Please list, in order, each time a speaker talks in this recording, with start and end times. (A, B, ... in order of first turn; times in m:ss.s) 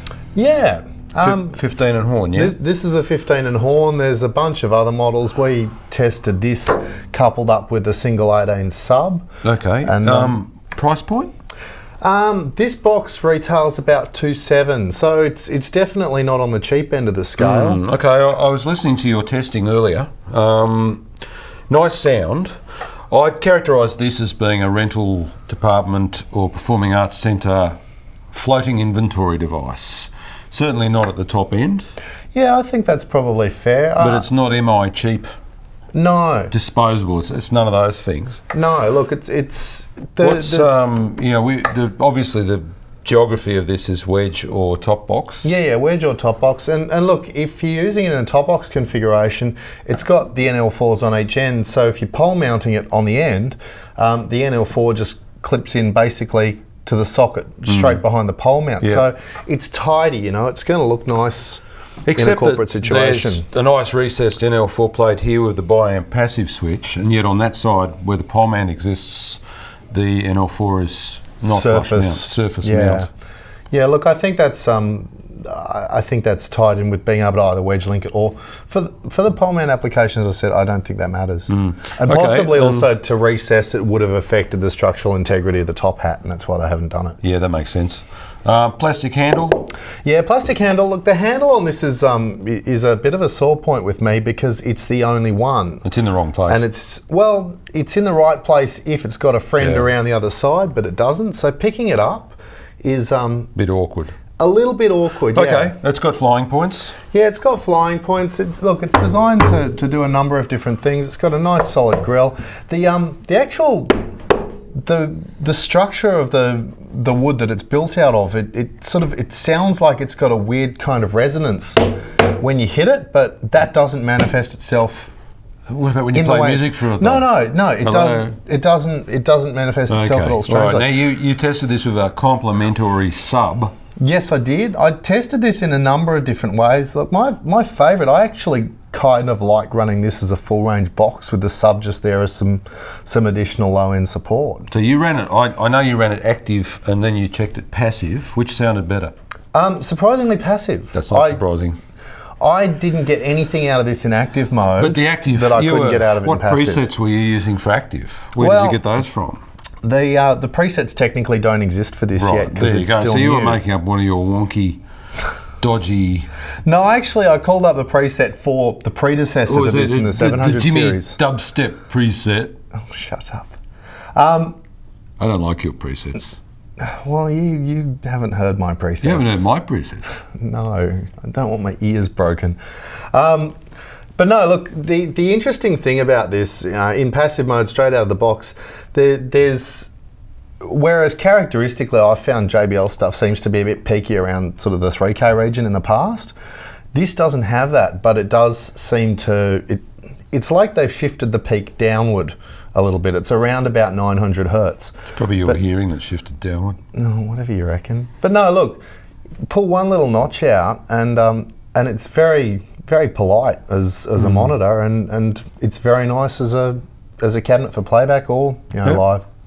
0:00.3-0:01.6 A
0:01.2-0:02.5 B
0:02.3-0:09.2 A
0:09.4-0:11.3 B
0:09.8-0:10.3 A
0:12.0-0:17.8 A
0:17.4-0:21.1 B
0:21.7-0:22.6 B
0:23.1-0:27.8 B
0:28.3-0:31.9 B
0:32.3-0:34.3 A
0:34.0-0:35.3 B
0:35.9-0:36.5 A
0:36.5-0:38.4 B
0:38.5-0:40.7 A
0:40.2-0:45.5 B
0:45.4-1:01.6 A
1:02.0-1:13.1 B
1:02.1-1:03.4 A
1:11.4-1:13.1 A
1:13.7-1:27.2 A
1:21.5-1:22.9 B
1:27.2-1:29.7 B
1:30.0-1:35.8 A
1:35.8-1:36.6 B
1:36.5-1:43.5 A
1:39.6-1:39.9 B
1:43.6-1:44.2 B
1:44.4-1:45.7 A
1:45.3-1:47.0 B
1:47.1-1:54.0 A
1:54.8-2:05.1 A
2:05.7-2:07.3 B
2:06.1-2:10.9 A
2:07.8-2:08.3 B
2:09.9-2:13.7 B
2:14.0-2:24.7 A
2:24.7-2:29.1 B
2:29.5-2:31.4 A
2:30.9-2:31.8 B
2:32.4-2:36.8 A
2:34.8-2:39.4 B
2:38.4-2:38.8 A
2:39.8-2:43.6 A
2:42.2-2:44.8 B
2:45.6-2:46.3 B
2:46.6-2:51.2 A
2:49.5-2:52.6 B
2:52.7-2:53.6 A
2:54.1-2:54.6 A
2:55.2-2:56.4 B
2:56.8-2:59.5 A
2:59.0-3:00.2 B
3:00.2-3:02.6 A
3:03.1-3:03.6 A
3:04.2-3:09.9 A
3:10.6-3:16.3 A
3:16.9-3:25.1 A
3:25.1-3:26.8 B
3:26.9-3:28.8 A
3:29.4-3:39.2 A
3:34.2-3:34.4 B